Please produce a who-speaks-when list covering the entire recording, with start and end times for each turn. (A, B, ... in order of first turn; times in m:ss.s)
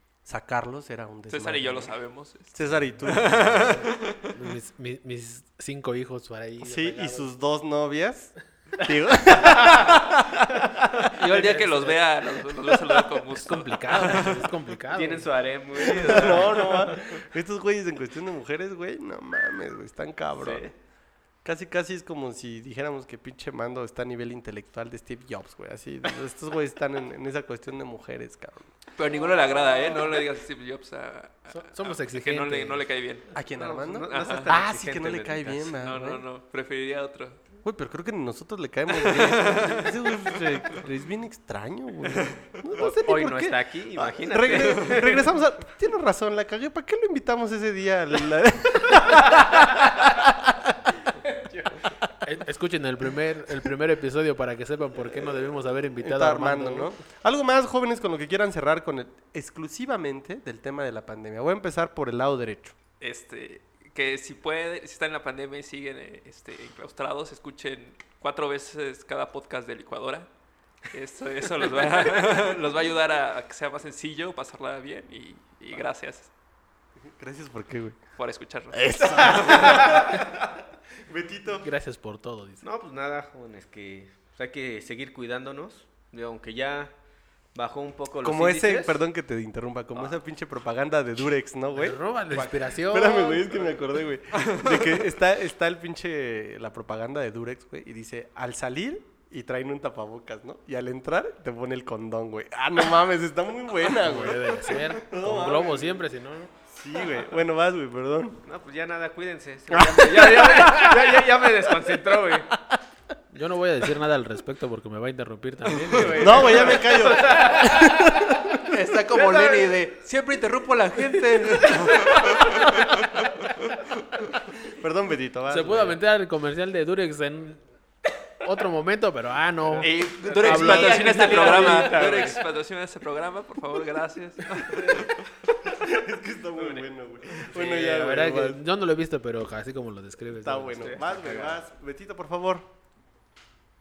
0:00.2-0:01.9 A
0:01.3-0:04.4 B
0:02.5-0:03.9 A
0:04.3-0:07.3 C
0:06.6-0:11.1 A
0:09.2-0:10.0 D
0:11.1-0:14.5 B
0:11.2-0:12.0 C
0:12.5-0:13.3 A
0:13.4-0:15.3 C
0:14.9-0:17.1 D
0:15.8-0:20.7 A
0:20.3-0:20.7 D
0:21.4-0:28.7 A
0:29.0-0:33.3 B
0:31.5-0:32.8 C
0:33.3-0:36.2 A
0:33.5-0:35.8 D
0:34.1-0:34.6 B
0:35.8-0:37.4 B
0:37.6-0:50.7 A
0:38.9-0:40.8 B
0:42.1-0:42.4 B
0:42.8-0:45.3 D
0:51.2-0:51.8 D
0:52.2-0:56.9 C
0:56.0-1:02.8 A
1:03.0-1:10.3 B
1:10.9-1:16.3 B
1:17.0-1:18.0 A
1:18.2-1:20.0 B
1:18.7-1:20.5 A
1:19.2-1:20.3 D
1:21.0-1:21.7 A
1:21.6-1:22.6 C
1:22.6-1:26.9 D
1:27.5-1:29.0 D
1:28.2-1:46.0 A
1:31.7-1:33.6 C
1:34.4-1:34.8 B
1:43.9-1:46.5 C
1:46.7-1:48.4 A
1:48.4-1:52.5 D
1:49.7-1:51.9 A
1:52.5-1:52.8 A
1:53.3-1:56.7 C
1:55.9-1:58.4 D
1:56.0-1:58.7 A
1:58.6-2:03.7 B
1:59.1-1:59.8 D
2:01.1-2:02.9 D
2:04.7-2:06.0 A
2:05.5-2:07.6 C
2:08.4-2:09.9 C
2:09.8-2:12.4 D
2:09.8-2:15.2 B
2:10.4-2:12.0 C
2:14.6-2:15.1 D
2:15.6-2:18.6 A
2:16.6-2:16.9 D
2:17.4-2:18.1 D
2:17.5-2:20.9 C
2:20.4-2:22.7 A
2:20.8-2:21.6 D